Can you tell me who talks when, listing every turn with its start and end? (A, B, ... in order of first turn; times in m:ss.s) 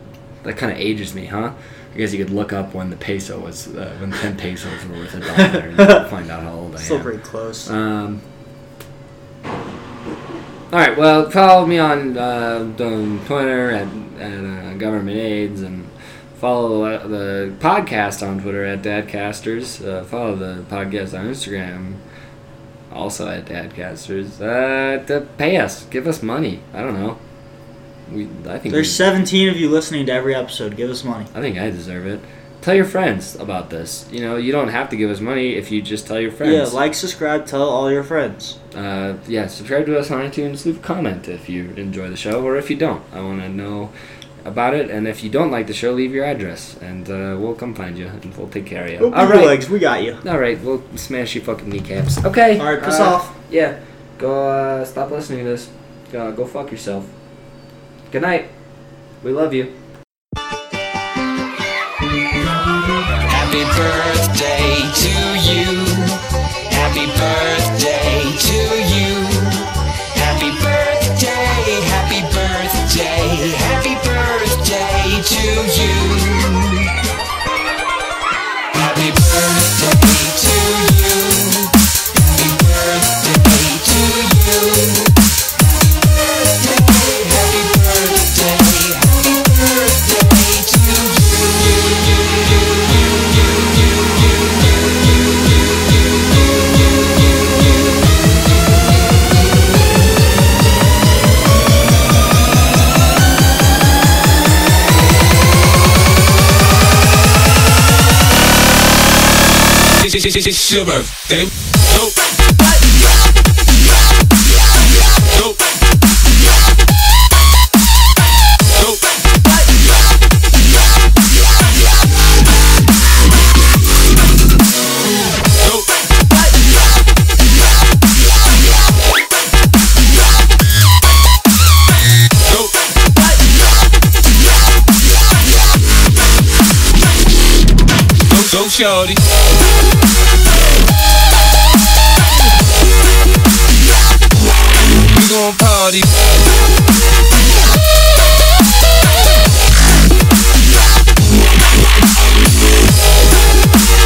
0:00.4-0:07.1 A
0:06.8-0:07.7 B
0:07.6-0:08.2 A
0:10.7-0:22.0 A
0:22.9-0:27.2 A
0:28.1-0:29.0 A
0:28.7-0:31.3 B
0:31.3-0:36.7 A
0:36.4-0:38.6 B
0:38.7-0:43.9 A
0:44.4-0:49.6 A
0:49.0-0:50.2 B
0:50.2-0:57.1 A
0:52.6-0:53.3 B
0:58.1-0:58.5 A
0:59.2-0:59.7 A
1:03.2-1:16.9 C
1:18.7-1:25.2 C
1:25.7-1:34.0 C
1:50.0-1:51.5 D
2:18.3-2:19.2 D
2:25.0-2:26.1 D